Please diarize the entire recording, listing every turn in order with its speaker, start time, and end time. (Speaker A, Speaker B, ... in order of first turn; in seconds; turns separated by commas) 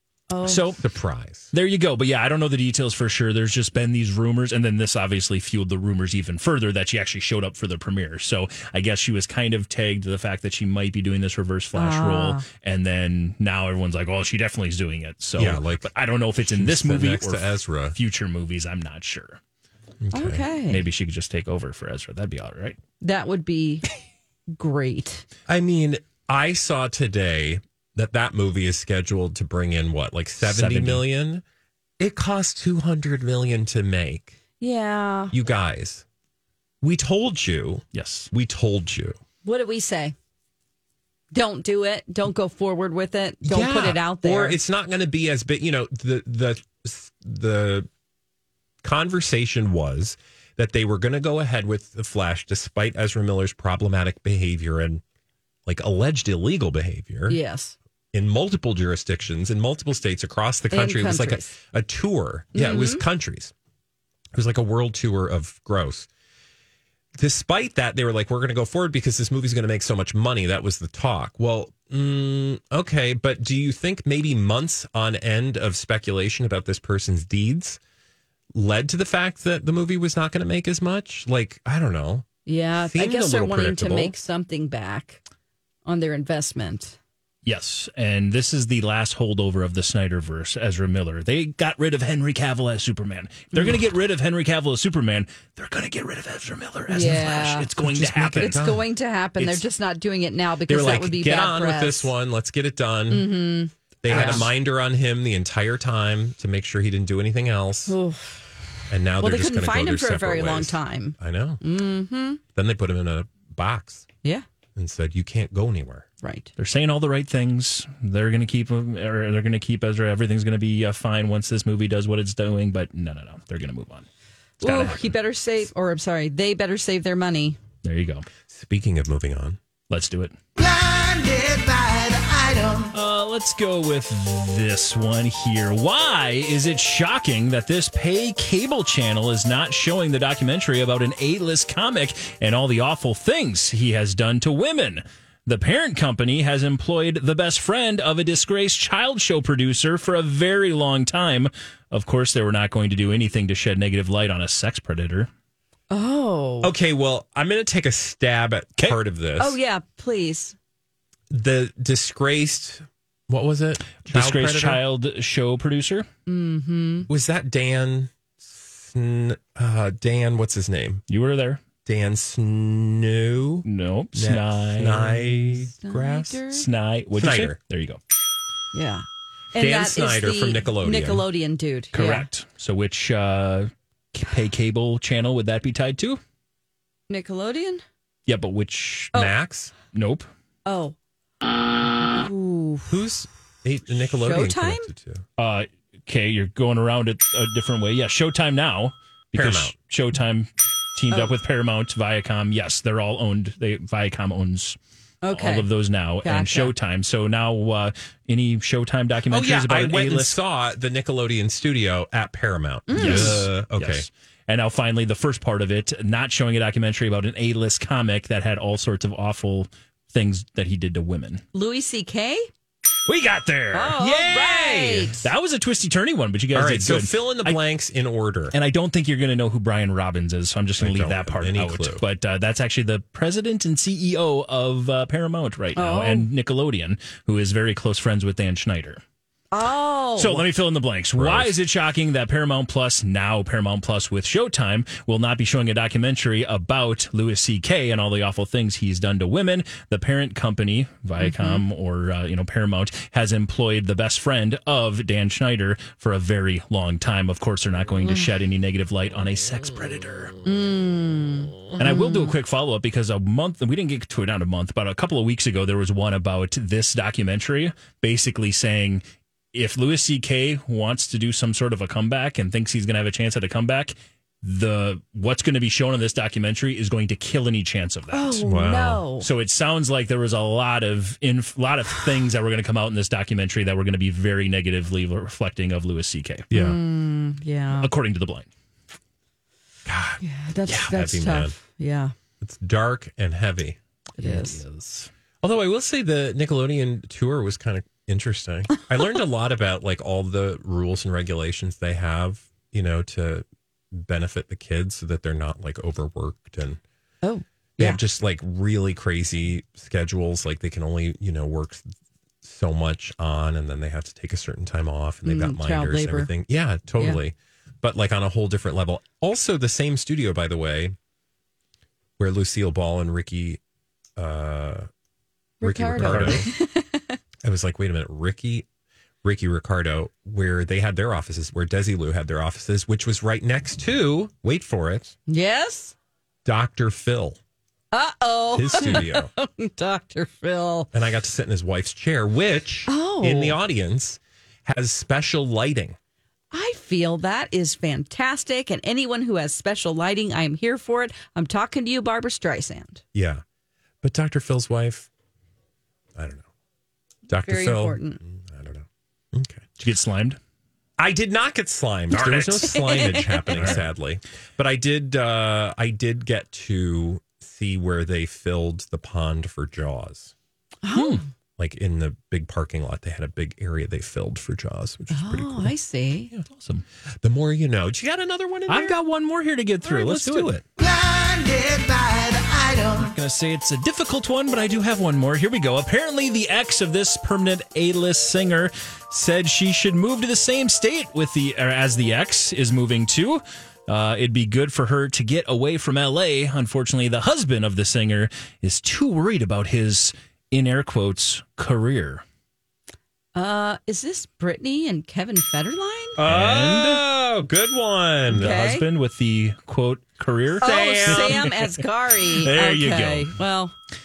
Speaker A: 0.3-0.7, Speaker B: 0.4-0.8, Speaker C: 0.8-1.5, Speaker B: 1.5-19.4, Speaker A: 11.7-12.4, Speaker C: 15.4-17.9, Speaker C: 20.0-20.4, Speaker A: 20.1-20.8, Speaker B: 20.6-22.8, Speaker A: 23.0-23.9, Speaker A: 24.5-25.2, Speaker C: 25.5-31.4, Speaker B: 30.4-31.1, Speaker C: 32.0-34.4, Speaker A: 34.6-35.3, Speaker C: 35.3-36.0, Speaker C: 36.8-39.2, Speaker B: 37.9-38.3, Speaker A: 39.4-40.1, Speaker A: 41.3-44.6, Speaker C: 43.4-47.9, Speaker C: 48.8-55.0, Speaker C: 55.6-57.4, Speaker A: 57.3-57.7, Speaker C: 58.1-63.5, Speaker A: 60.7-61.5, Speaker A: 62.5-63.0, Speaker C: 64.3-66.1, Speaker C: 67.2-77.8, Speaker C: 78.5-82.3, Speaker A: 82.5-85.2, Speaker C: 82.9-84.1, Speaker A: 85.8-87.0, Speaker B: 87.4-98.6, Speaker A: 96.9-97.7, Speaker C: 97.8-98.8, Speaker A: 98.3-102.1, Speaker C: 100.7-103.3, Speaker A: 103.1-104.5, Speaker C: 104.0-108.0, Speaker B: 104.1-104.5, Speaker A: 107.9-108.4, Speaker C: 108.9-111.6, Speaker A: 109.2-112.4, Speaker C: 112.5-114.1, Speaker C: 114.8-116.1, Speaker A: 116.2-116.5, Speaker B: 116.6-124.1, Speaker A: 124.6-127.6, Speaker B: 124.6-125.1, Speaker B: 127.8-128.3, Speaker C: 128.5-129.6, Speaker B: 129.9-130.3, Speaker D: 130.6-132.9, Speaker B: 132.9-155.3, Speaker A: 155.9-156.7, Speaker C: 156.6-159.6, Speaker A: 159.4-160.5, Speaker C: 161.3-164.8, Speaker B: 164.1-166.1, Speaker A: 166.3-167.1, Speaker C: 167.1-171.0, Speaker B: 171.1-171.6, Speaker C: 171.8-176.4, Speaker B: 173.6-175.4, Speaker A: 175.8-176.6, Speaker B: 176.5-178.0, Speaker C: 177.2-177.6, Speaker A: 178.7-182.3, Speaker C: 179.6-181.2, Speaker B: 181.9-186.2, Speaker A: 187.1-187.8, Speaker B: 188.3-189.1, Speaker C: 189.1-189.7, Speaker B: 189.9-190.3, Speaker A: 190.7-190.9, Speaker A: 192.1-192.9, Speaker C: 192.9-195.2, Speaker A: 194.2-194.9, Speaker B: 195.4-204.8, Speaker C: 199.3-199.7, Speaker A: 205.2-205.7, Speaker B: 205.3-210.4, Speaker A: 206.2-206.7, Speaker C: 209.3-214.1, Speaker A: 212.9-213.5, Speaker B: 213.0-221.4, Speaker A: 221.5-222.4, Speaker B: 223.0-224.4, Speaker A: 223.7-225.2, Speaker C: 224.0-225.2, Speaker B: 225.2-227.6, Speaker C: 226.5-228.5, Speaker B: 228.5-239.0, Speaker C: 230.8-232.0, Speaker A: 235.8-236.3, Speaker A: 239.5-240.4, Speaker B: 240.2-260.4, Speaker C: 241.2-241.5, Speaker A: 251.2-251.6, Speaker A: 260.4-262.3, Speaker B: 261.8-278.4, Speaker A: 278.1-279.3, Speaker C: 278.4-279.0, Speaker B: 279.2-286.5, Speaker A: 286.5-287.9, Speaker B: 287.7-288.5, Speaker C: 289.9-290.2, Speaker A: 290.2-292.1, Speaker C: 290.7-291.6, Speaker C: 292.4-293.8, Speaker A: 294.2-294.6, Speaker B: 294.2-295.1, Speaker C: 295.4-306.8, Speaker A: 307.2-308.0, Speaker C: 307.8-311.8, Speaker C: 312.4-320.9, Speaker A: 315.2-316.3, Speaker C: 322.2-323.6, Speaker C: 324.2-324.9, Speaker A: 325.6-327.2, Speaker C: 325.6-326.5, Speaker B: 326.0-326.4, Speaker C: 327.4-328.6, Speaker C: 329.2-335.1, Speaker A: 335.3-335.9, Speaker C: 336.4-337.4, Speaker A: 337.9-340.9, Speaker C: 338.5-339.3, Speaker C: 340.9-345.9, Speaker A: 342.9-343.6, Speaker A: 346.5-353.0, Speaker C: 353.1-353.4, Speaker C: 354.0-355.1, Speaker C: 356.1-356.4, Speaker C: 357.3-359.7, Speaker A: 357.4-358.2, Speaker B: 359.8-360.4, Speaker C: 361.0-370.3, Speaker B: 362.1-363.8, Speaker A: 362.6-363.8, Speaker A: 370.8-371.2, Speaker B: 370.9-371.2, Speaker C: 371.6-375.7, Speaker A: 375.1-376.3, Speaker B: 376.5-376.8, Speaker C: 377.2-379.0, Speaker B: 378.7-380.6, Speaker C: 379.8-380.6, Speaker D: 381.0-382.4, Speaker B: 382.9-402.2, Speaker A: 403.3-406.2, Speaker C: 406.2-408.5, Speaker B: 406.2-407.1, Speaker A: 408.3-408.8, Speaker B: 408.3-411.7, Speaker C: 410.6-411.5, Speaker A: 410.6-413.7, Speaker B: 412.3-413.3